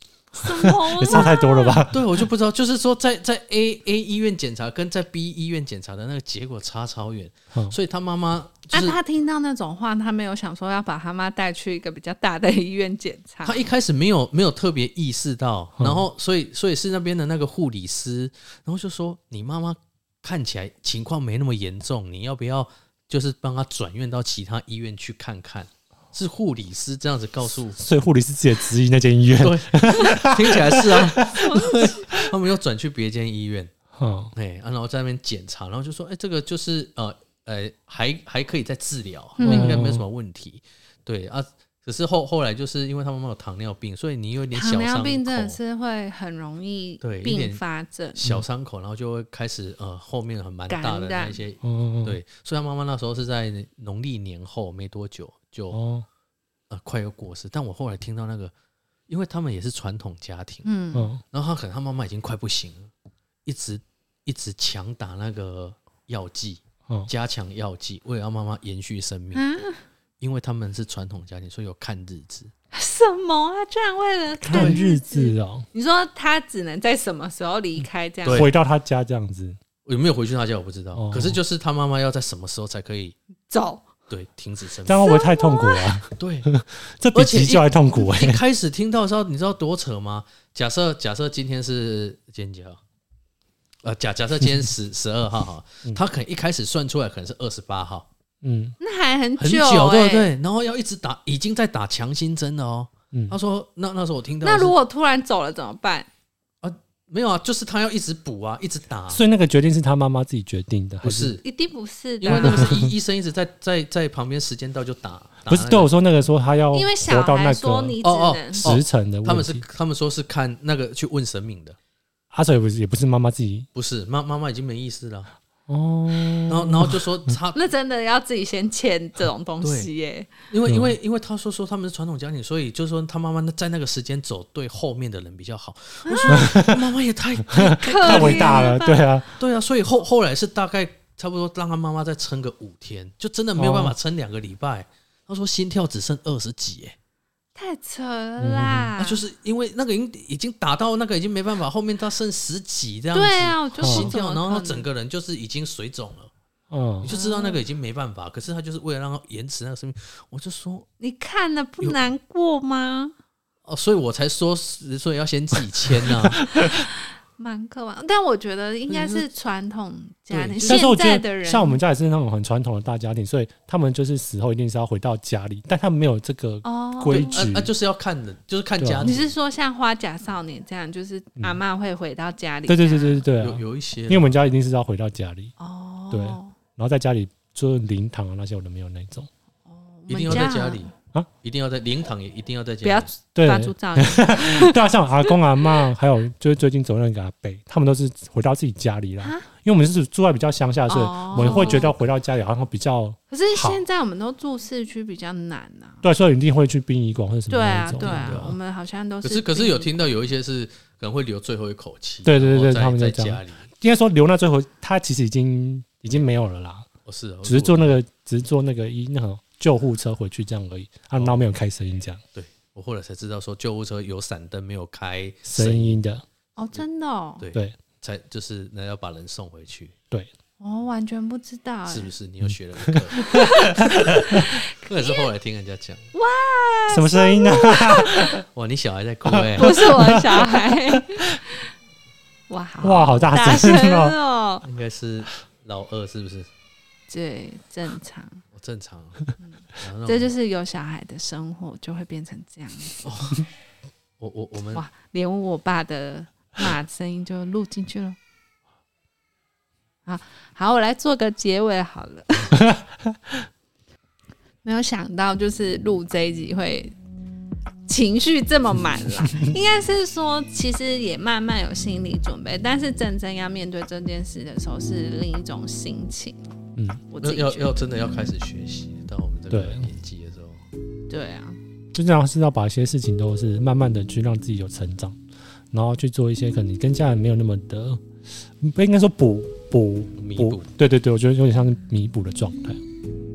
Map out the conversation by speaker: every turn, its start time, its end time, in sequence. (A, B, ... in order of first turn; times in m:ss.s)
0:00.4-0:01.9 A
0:00.6-0:02.3 B
0:01.0-0:01.3 C
0:01.9-0:09.0 C
0:08.7-0:13.7 A
0:13.4-0:27.8 C
0:15.8-0:16.1 B
0:27.8-0:31.6 B
0:29.4-0:33.7 C
0:29.9-0:30.2 A
0:31.3-0:32.2 A
0:33.9-0:34.3 B
0:34.3-0:45.6 C
0:39.4-0:39.8 A
0:39.4-0:40.1 B
0:44.5-0:48.2 A
0:47.0-0:47.6 C
0:48.2-0:55.8 C
0:50.7-0:51.4 A
0:51.6-0:52.2 B
0:55.7-0:56.1 B
0:56.7-0:58.5 C
0:59.1-1:00.7 C
1:00.6-1:01.1 A
1:00.9-1:01.2 B
1:01.3-1:02.9 C
1:03.5-1:09.4 C
1:09.3-1:09.8 A
1:10.2-1:12.5 C
1:12.7-1:18.5 A
1:14.4-1:15.7 B
1:14.5-1:14.8 C
1:18.2-1:18.5 C
1:18.3-1:19.6 B
1:19.9-1:23.2 C
1:20.9-1:21.4 B
1:23.5-1:23.9 A
1:24.1-1:25.1 C
1:24.9-1:28.4 B
1:25.0-1:26.0 A
1:26.2-1:26.5 C
1:27.1-1:32.8 C
1:33.8-1:38.1 C
1:38.4-1:38.8 B
1:38.8-1:40.3 A
1:39.4-1:44.8 C
1:43.1-1:43.4 B
1:44.4-1:46.1 A
1:46.6-1:49.2 C
1:49.1-1:51.4 B
1:51.0-1:51.4 C
1:51.4-1:52.8 A
1:52.2-1:55.9 C
1:52.3-1:53.0 B
1:55.5-1:58.0 B
1:56.7-1:58.7 A
1:58.0-2:01.8 C
1:58.6-1:59.6 B
2:02.3-2:03.7 B
2:03.7-2:05.3 C
2:05.7-2:07.3 B
2:06.5-2:07.6 C
2:07.5-2:10.3 A
2:09.6-2:09.9 C
2:10.5-2:18.7 C
2:10.7-2:11.0 B
2:16.0-2:16.5 A
2:16.3-2:16.9 B
2:17.5-2:19.3 B
2:17.7-2:19.0 A
2:19.4-2:27.0 C
2:23.6-2:24.0 B
2:27.6-2:29.2 A
2:28.4-2:28.9 B
2:29.0-2:36.3 C
2:33.1-2:34.9 A
2:33.8-2:34.1 B
2:36.7-2:37.1 B
2:37.0-2:40.9 C
2:37.1-2:37.6 A
2:41.0-2:43.1 A
2:43.6-2:46.4 C
2:46.1-2:46.9 B
2:46.5-2:51.8 A
2:48.9-2:49.3 C
2:50.3-2:50.8 C
2:50.7-2:57.7 B
2:56.6-2:57.4 A
2:57.1-2:59.3 C
2:58.8-2:59.1 B
2:59.0-3:03.3 A
3:02.7-3:05.5 B
3:03.4-3:04.4 C
3:05.6-3:06.6 A
3:06.1-3:09.3 B
3:09.7-3:10.9 A
3:10.1-3:10.9 C
3:11.4-3:13.1 C
3:12.8-3:15.9 A
3:13.4-3:23.8 B
3:19.2-3:19.5 A
3:20.9-3:21.9 A
3:21.4-3:21.9 C
3:23.3-3:26.0 A
3:26.0-3:28.6 B
3:27.5-3:30.2 A
3:28.0-3:28.6 C
3:29.2-3:33.6 C
3:32.2-3:36.9 B
3:37.0-3:38.0 C
3:37.4-3:42.2 B
3:41.2-3:41.4 C
3:42.3-3:46.0 C
3:45.5-3:46.2 B
3:46.6-3:47.4 A
3:47.4-3:50.0 C
3:50.6-3:52.1 A
3:51.9-3:56.1 C
3:52.8-3:54.5 B
3:53.2-3:55.3 A
3:56.1-3:58.4 A
3:56.9-3:58.4 B
3:58.5-4:00.2 C
3:59.3-4:01.4 B
3:59.6-4:01.7 A
4:02.5-4:04.6 A
4:02.8-4:04.2 B
4:04.6-4:06.5 C
4:07.1-4:08.4 A
4:08.5-4:10.3 C
4:09.4-4:13.1 A
4:13.0-4:13.5 C
4:14.2-4:14.8 C
4:14.7-4:18.2 A
4:20.1-4:22.6 A
4:22.6-4:23.2 B
4:24.6-4:27.0 A
4:27.9-4:36.5 A
4:36.8-4:37.0 B
4:37.1-4:37.7 A
4:37.2-4:40.7 C
4:39.5-4:39.9 B
4:41.1-4:41.6 A
4:41.9-4:45.2 B
4:45.7-4:48.0 B
4:48.6-4:52.8 B
4:50.2-4:50.7 C